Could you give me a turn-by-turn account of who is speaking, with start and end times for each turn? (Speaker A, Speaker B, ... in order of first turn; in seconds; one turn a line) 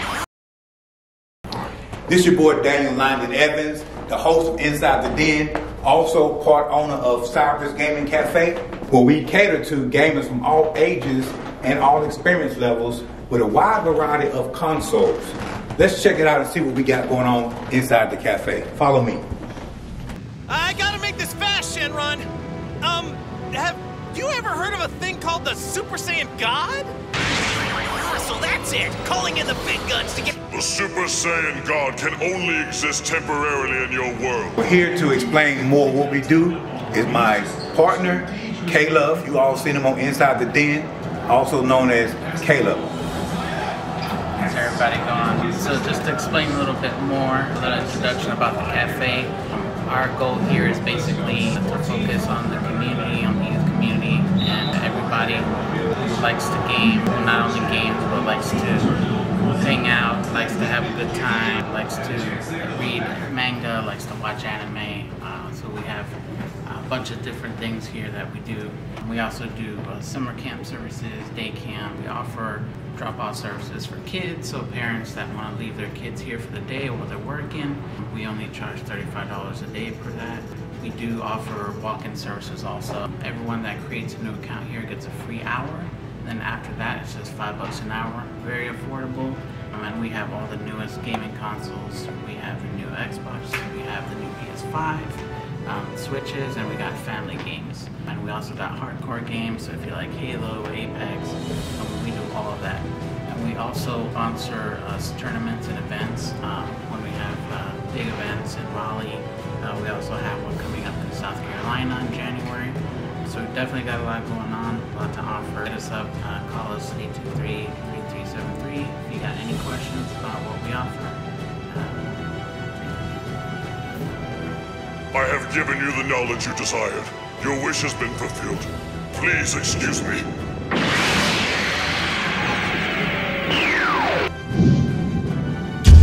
Speaker A: 2.1-19.2
Speaker B: 20.5-22.3
Speaker B: 22.8-26.9
Speaker B: 27.9-30.4
Speaker C: 30.5-34.6
Speaker A: 34.6-42.9
Speaker D: 44.4-55.5
Speaker D: 56.1-58.9
Speaker D: 59.5-123.0
Speaker C: 125.1-130.2